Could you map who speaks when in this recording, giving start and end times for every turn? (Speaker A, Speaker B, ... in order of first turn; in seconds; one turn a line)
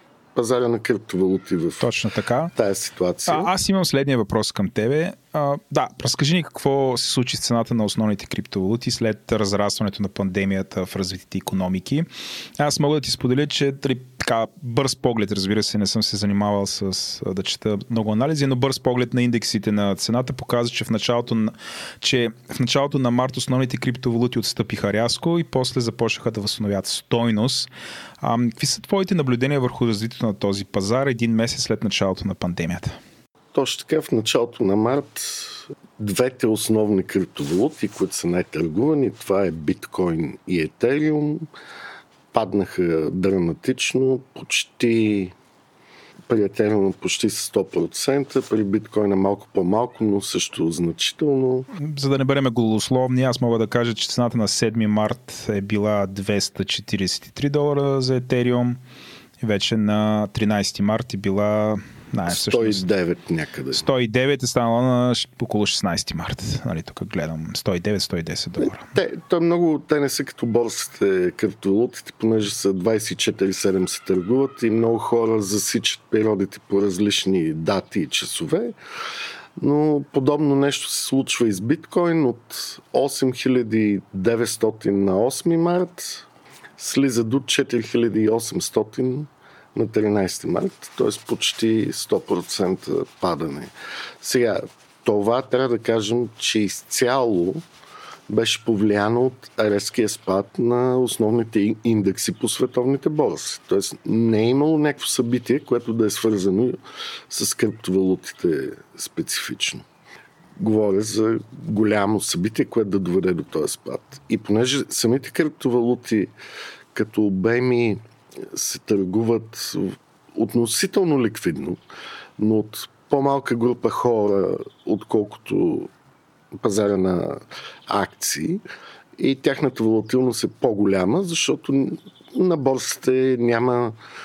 Speaker A: 0.3-1.9
Speaker B: 1.8-2.5
Speaker A: 2.5-3.5
Speaker B: 3.3-12.0
Speaker B: 12.6-27.7
Speaker B: 28.2-32.9
Speaker A: 33.5-41.5
Speaker A: 42.3-45.3
Speaker A: 46.3-51.7
Speaker B: 51.8-58.8
Speaker B: 59.4-62.8
Speaker A: 62.3-63.9
Speaker B: 63.7-68.8
Speaker A: 68.6-78.7
Speaker A: 79.6-86.2
Speaker A: 86.8-97.6
Speaker A: 98.3-106.8
Speaker A: 107.3-109.8
Speaker A: 110.6-116.3
Speaker A: 116.9-118.0
Speaker A: 118.5-121.8
Speaker A: 122.4-125.9
Speaker A: 126.6-128.6
Speaker A: 129.2-133.9